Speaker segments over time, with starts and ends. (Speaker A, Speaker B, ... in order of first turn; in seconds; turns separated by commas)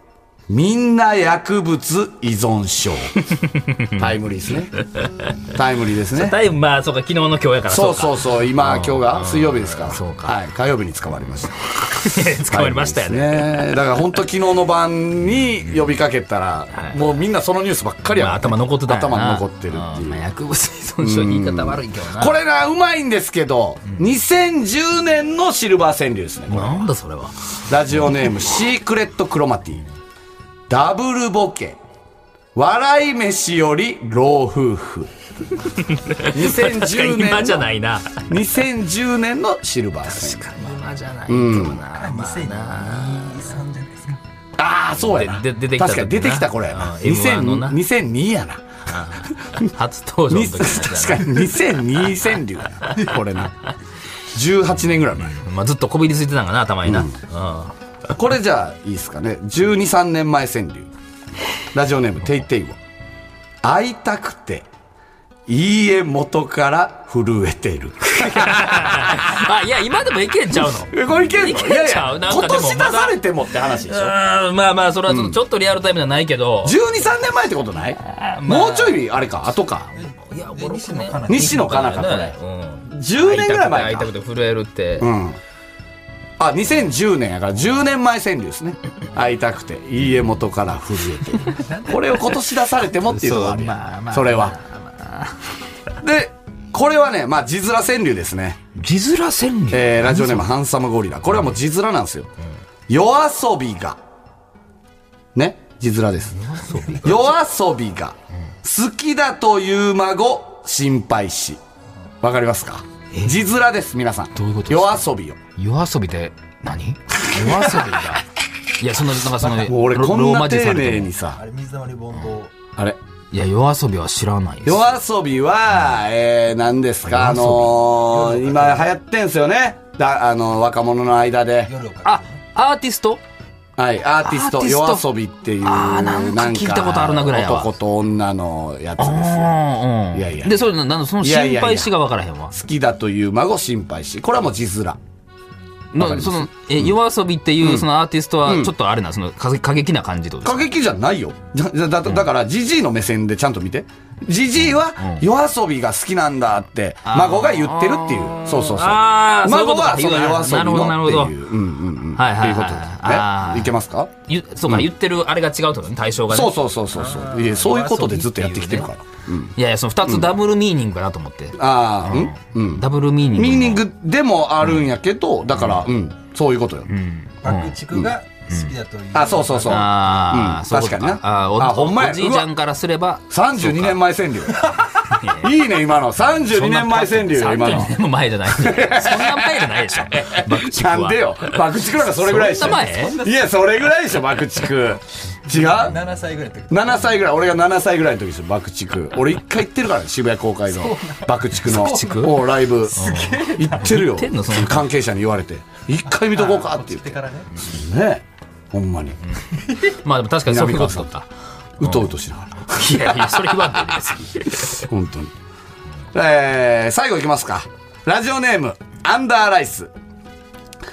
Speaker A: 0.5-3.1, Speaker B: 3.4-3.9, Speaker A: 4.0-4.7, Speaker B: 4.8-5.1, Speaker A: 5.5-6.4, Speaker B: 6.1-10.4, Speaker A: 7.7-20.2, Speaker B: 11.9-13.8, Speaker B: 16.7-17.0, Speaker B: 18.1-22.4, Speaker A: 21.0-26.9, Speaker B: 26.5-27.4, Speaker A: 27.6-29.8, Speaker A: 30.7-31.8, Speaker A: 32.5-35.1, Speaker B: 35.8-38.3, Speaker A: 36.3-37.7, Speaker A: 38.2-40.5, Speaker B: 40.1-43.5, Speaker A: 41.3-41.8, Speaker C: 41.9-44.2, Speaker A: 44.6-49.7, Speaker B: 45.0-47.8, Speaker B: 48.9-51.5, Speaker A: 50.3-53.5, Speaker A: 54.3-55.4, Speaker B: 55.2-57.7, Speaker A: 56.9-57.1, Speaker A: 58.1-60.9, Speaker A: 61.7-62.8, Speaker A: 63.6-64.7, Speaker A: 65.5-69.5, Speaker B: 68.1-76.8, Speaker A: 70.9-74.1, Speaker A: 75.1-75.4, Speaker A: 76.6-79.9, Speaker B: 78.1-79.1, Speaker C: 80.0-81.7, Speaker B: 80.0-85.1, Speaker A: 81.3-82.3, Speaker A: 82.9-84.1, Speaker A: 85.0-85.4, Speaker A: 86.4-94.6, Speaker C: 91.6-92.0, Speaker B: 93.0-95.4, Speaker A: 96.0-98.6, Speaker B: 98.7-100.5, Speaker A: 99.7-102.3, Speaker A: 102.9-104.0, Speaker A: 105.3-106.4, Speaker B: 106.3-107.3, Speaker A: 107.0-111.6, Speaker A: 112.2-115.4, Speaker B: 114.3-115.0, Speaker B: 115.6-118.2, Speaker A: 117.2-118.0, Speaker B: 118.8-121.1, Speaker A: 119.4-121.4, Speaker C: 121.3-122.5, Speaker B: 123.3-124.9, Speaker A: 124.6-131.7, Speaker B: 127.0-127.8, Speaker C: 128.0-128.9, Speaker C: 131.7-132.3, Speaker B: 132.0-133.2, Speaker A: 133.8-139.6, Speaker B: 134.2-135.0, Speaker B: 135.6-137.7, Speaker B: 139.0-142.5, Speaker A: 140.1-140.6, Speaker A: 141.2-141.9, Speaker A: 142.5-145.0, Speaker B: 145.9-150.7, Speaker A: 145.9-146.9, Speaker A: 147.6-147.8, Speaker A: 148.4-148.7, Speaker A: 150.4-164.1, Speaker B: 155.0-155.2, Speaker B: 157.0-161.3, Speaker B: 162.2-163.7, Speaker B: 164.3-166.5, Speaker A: 166.3-169.5, Speaker C: 167.0-168.1, Speaker B: 167.7-168.9, Speaker B: 169.6-173.8, Speaker A: 170.1-170.3, Speaker A: 171.6-176.9, Speaker B: 175.6-175.9, Speaker B: 176.9-177.8, Speaker C: 177.4-179.9, Speaker B: 178.5-178.7, Speaker A: 179.1-182.5, Speaker B: 179.7-184.0, Speaker A: 183.3-195.9, Speaker B: 185.1-185.5, Speaker B: 186.3-191.6, Speaker B: 192.1-193.2, Speaker C: 192.9-193.3, Speaker C: 195.5-197.1, Speaker A: 196.7-209.2, Speaker C: 200.7-202.3, Speaker B: 201.6-204.9, Speaker C: 202.9-203.9, Speaker C: 206.1-207.5, Speaker B: 210.0-211.3, Speaker A: 210.5-211.1, Speaker B: 211.8-212.1, Speaker A: 211.8-213.9, Speaker B: 212.7-214.8, Speaker A: 214.7-215.3, Speaker A: 216.1-219.9